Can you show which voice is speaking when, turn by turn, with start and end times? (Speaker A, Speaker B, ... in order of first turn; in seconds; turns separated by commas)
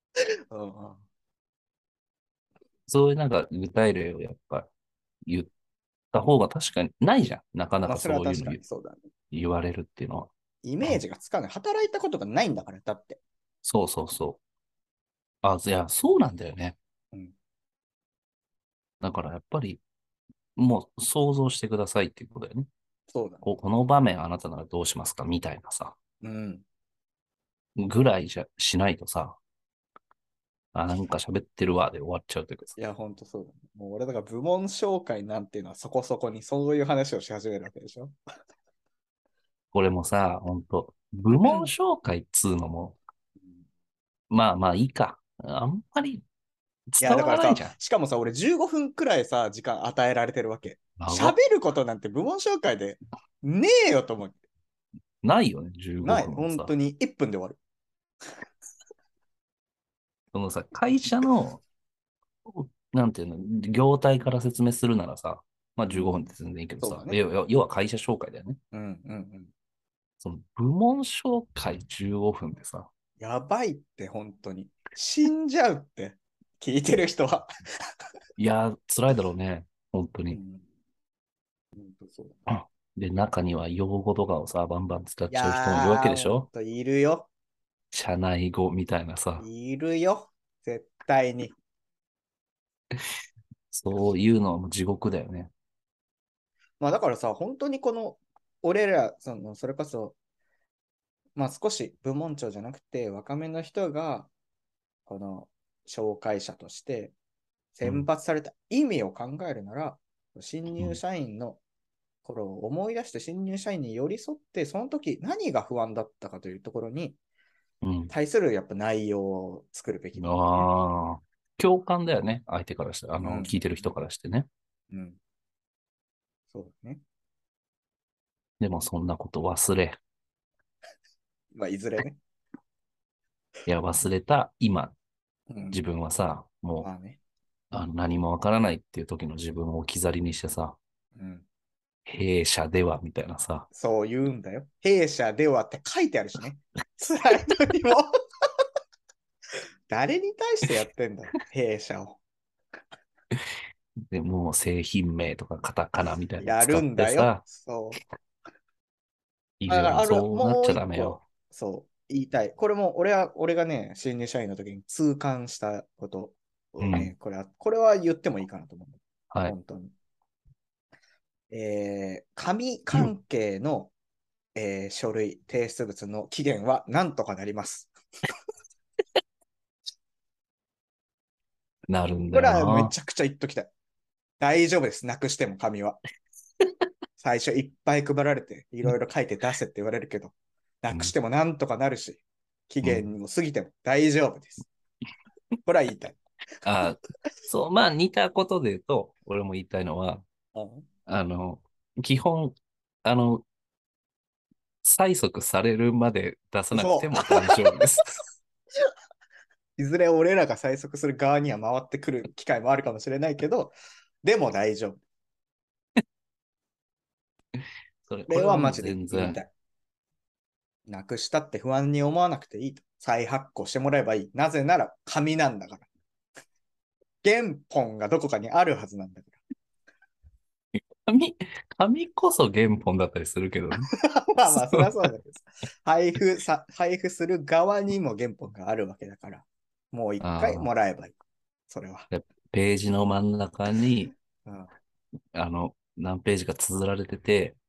Speaker A: 0.5-1.0, Speaker B: 2.9-4.7, Speaker B: 5.2-5.5, Speaker B: 6.1-8.6, Speaker A: 7.9-9.0, Speaker B: 9.3-10.3, Speaker A: 10.6-13.2, Speaker B: 13.6-14.4, Speaker B: 15.4-16.8, Speaker B: 19.0-19.8, Speaker B: 20.6-22.7, Speaker A: 23.1-23.4, Speaker B: 23.4-25.9, Speaker A: 26.2-26.6, Speaker B: 27.8-29.4, Speaker B: 30.7-32.8, Speaker A: 32.8-38.1, Speaker B: 39.7-43.0, Speaker A: 41.3-41.7, Speaker B: 44.3-46.2, Speaker B: 46.9-47.7, Speaker A: 47.0-54.4, Speaker B: 51.0-51.4, Speaker B: 55.2-56.7, Speaker A: 56.0-57.6, Speaker B: 60.3-61.6, Speaker B: 62.4-68.6, Speaker A: 65.8-66.2, Speaker A: 66.8-67.2, Speaker A: 68.7-69.5, Speaker B: 70.2-72.9, Speaker A: 73.2-77.5, Speaker B: 78.4-80.4, Speaker A: 80.3-80.6, Speaker A: 81.8-82.4, Speaker B: 82.5-86.5, Speaker A: 85.3-87.3, Speaker B: 87.9-89.5, Speaker A: 89.4-91.5, Speaker B: 93.7-95.5, Speaker A: 96.8-100.1, Speaker A: 101.3-104.3, Speaker A: 105.1-107.1, Speaker A: 107.7-111.6, Speaker A: 112.2-117.2, Speaker B: 117.8-118.1, Speaker A: 118.1-120.7, Speaker B: 120.2-124.5, Speaker A: 123.2-123.6, Speaker A: 124.9-125.2, Speaker A: 126.5-127.0, Speaker B: 128.6-130.0, Speaker A: 131.5-132.2, Speaker B: 133.7-134.9, Speaker A: 135.5-135.8, Speaker B: 135.7-136.9, Speaker A: 136.8-137.2, Speaker B: 137.7-140.8, Speaker A: 141.1-141.4, Speaker B: 142.1-143.7, Speaker A: 143.7-148.2, Speaker A: 149.9-152.2, Speaker B: 153.3-157.4, Speaker A: 156.4-158.0, Speaker B: 159.6-161.2, Speaker A: 159.7-169.9, Speaker B: 166.8-167.1, Speaker A: 171.5-173.9, Speaker A: 174.5-177.9, Speaker B: 181.9-182.9, Speaker A: 182.3-183.7, Speaker A: 184.4-186.0, Speaker A: 187.2-194.7, Speaker A: 195.6-196.2, Speaker B: 196.6-200.2, Speaker A: 200.5-200.9, Speaker B: 201.1-203.4, Speaker B: 204.8-208.2, Speaker A: 206.7-207.7, Speaker A: 209.8-215.0, Speaker B: 218.0-219.4, Speaker A: 218.3-219.5, Speaker A: 220.9-225.9, Speaker A: 227.2-229.4, Speaker B: 230.8-233.9, Speaker A: 233.9-241.1, Speaker B: 234.5-234.9, Speaker B: 240.2-240.7, Speaker A: 241.7-242.1, Speaker B: 242.1-244.1, Speaker A: 244.4-244.7, Speaker B: 245.3-247.6